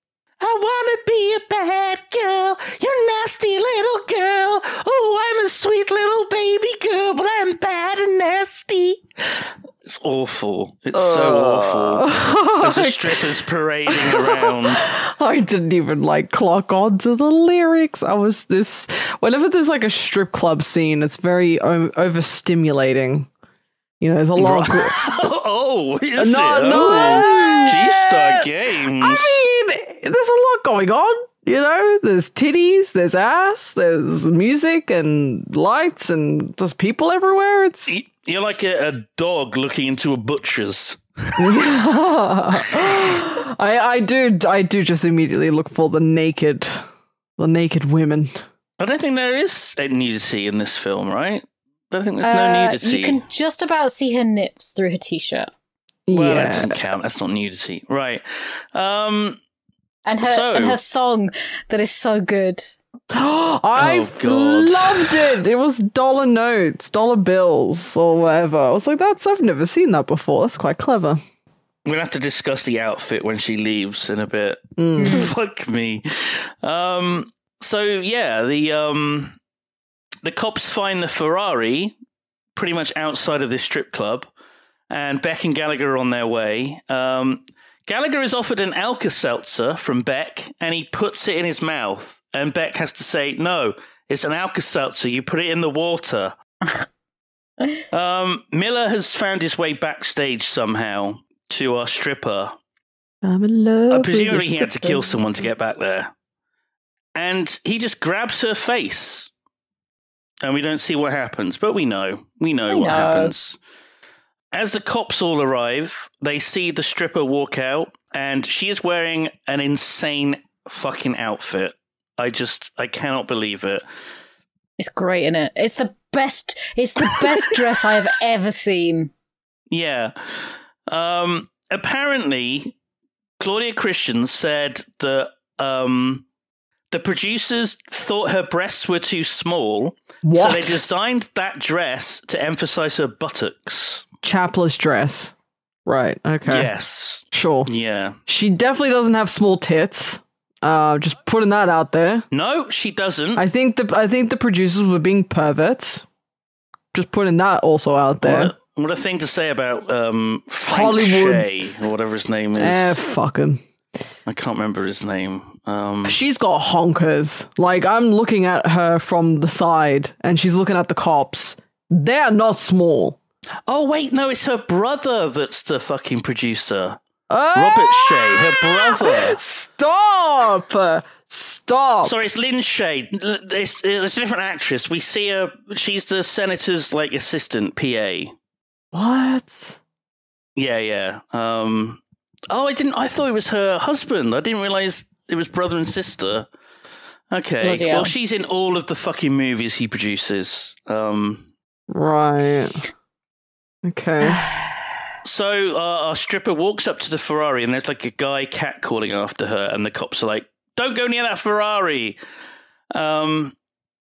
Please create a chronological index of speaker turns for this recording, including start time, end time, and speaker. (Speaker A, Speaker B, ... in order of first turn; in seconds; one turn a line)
Speaker A: 0.4-14.9
Speaker B: 10.9-13.3
Speaker B: 13.9-23.3
Speaker B: 24.0-24.9
Speaker A: 24.4-29.4
Speaker B: 26.2-38.0
Speaker C: 26.8-27.7
Speaker A: 37.9-41.8
Speaker B: 41.4-46.8
Speaker A: 42.5-43.1
Speaker B: 47.4-48.4
Speaker A: 48.8-53.2
Speaker C: 52.2-55.5
Speaker B: 56.1-56.8
Speaker A: 56.1-59.4
Speaker C: 60.1-62.8
Speaker A: 60.2-60.8
Speaker B: 63.1-71.2
Speaker A: 63.8-65.4
Speaker A: 71.8-79.4
Speaker B: 74.8-75.3
Speaker C: 75.0-75.3
Speaker A: 80.2-82.0
Speaker A: 82.5-84.3
Speaker A: 84.9-96.3
Speaker A: 97.9-102.6
Speaker B: 103.2-105.1
Speaker A: 103.9-106.1
Speaker A: 107.2-109.3
Speaker A: 110.4-113.6
Speaker C: 112.7-113.3
Speaker A: 114.5-123.8
Speaker C: 124.8-129.1
Speaker A: 129.7-132.7
Speaker A: 133.4-136.2
Speaker A: 136.9-144.0
Speaker B: 140.2-140.8
Speaker B: 144.2-145.3
Speaker B: 145.9-146.7
Speaker A: 146.5-148.2
Speaker B: 147.3-147.7
Speaker B: 148.3-152.3
Speaker A: 152.3-153.4
Speaker B: 153.4-156.1
Speaker B: 156.9-158.5
Speaker A: 158.2-163.0
Speaker B: 160.7-161.5
Speaker B: 162.6-163.6
Speaker A: 164.3-166.2
Speaker B: 166.1-173.2
Speaker A: 173.7-177.0
Speaker B: 177.3-182.2
Speaker A: 177.5-179.4
Speaker A: 182.0-188.3
Speaker B: 188.9-189.8
Speaker A: 190.6-196.5
Speaker A: 197.3-201.5
Speaker C: 197.6-198.1
Speaker B: 201.9-202.8
Speaker B: 203.8-204.4
Speaker A: 205.2-212.2
Speaker A: 212.9-213.6